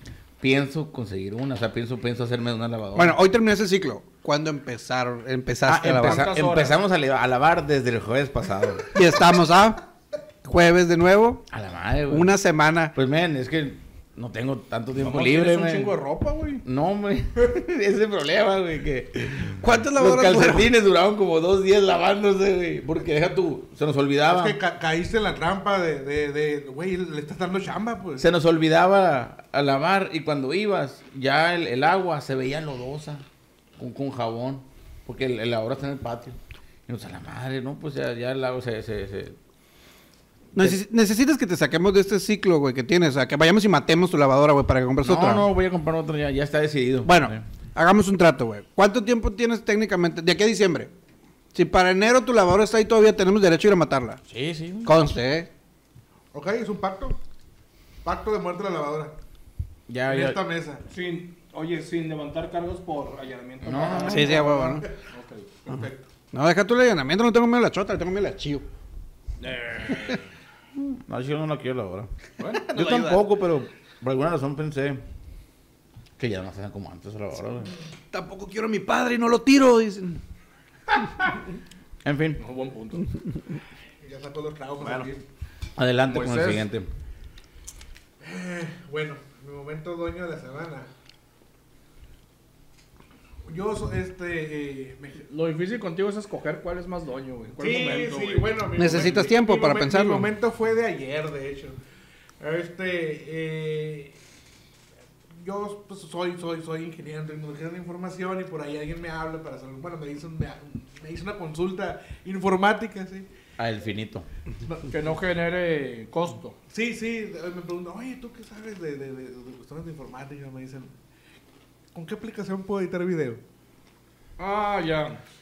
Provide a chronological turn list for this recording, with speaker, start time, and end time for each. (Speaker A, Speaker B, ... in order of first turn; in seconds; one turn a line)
Speaker A: 0.4-3.2
Speaker B: 2.9-6.3
Speaker A: 5.7-8.9
Speaker C: 6.0-6.8
Speaker B: 8.9-9.8
Speaker B: 10.4-11.4
Speaker A: 11.5-12.4
Speaker B: 12.1-12.9
Speaker A: 12.9-15.9
Speaker C: 15.0-16.6
Speaker A: 16.6-24.6
Speaker B: 19.6-20.7
Speaker D: 24.2-28.2
Speaker A: 28.2-33.2
Speaker A: 33.8-36.4
Speaker A: 36.9-39.4
Speaker B: 40.5-45.5
Speaker A: 45.0-47.4
Speaker B: 47.0-50.9
Speaker B: 51.5-54.2
Speaker A: 54.3-54.9
Speaker B: 54.8-55.5
Speaker D: 56.3-57.2
Speaker D: 58.0-59.1
Speaker A: 59.9-60.4
Speaker D: 60.1-60.8
Speaker C: 60.9-65.6
Speaker A: 63.6-64.5
Speaker B: 64.0-64.9
Speaker D: 64.3-64.9
Speaker D: 65.7-66.1
Speaker B: 66.3-68.7
Speaker C: 69.4-70.3
Speaker A: 70.8-75.0
Speaker B: 72.7-73.2
Speaker A: 76.2-77.7
Speaker B: 78.1-80.2
Speaker A: 82.0-82.4
Speaker C: 82.4-83.1
Speaker D: 84.0-85.2
Speaker C: 84.8-85.1
Speaker A: 85.8-86.9
Speaker C: 86.1-86.7
Speaker D: 88.2-90.9
Speaker D: 93.5-95.2
Speaker C: 95.3-98.5
Speaker D: 97.6-101.8
Speaker B: 98.7-100.3
Speaker D: 102.4-104.2
Speaker D: 105.4-113.3
Speaker A: 113.6-114.2
Speaker D: 114.7-114.9
Speaker C: 114.9-116.5
Speaker D: 116.7-120.9
Speaker D: 121.9-123.4
Speaker C: 124.4-125.2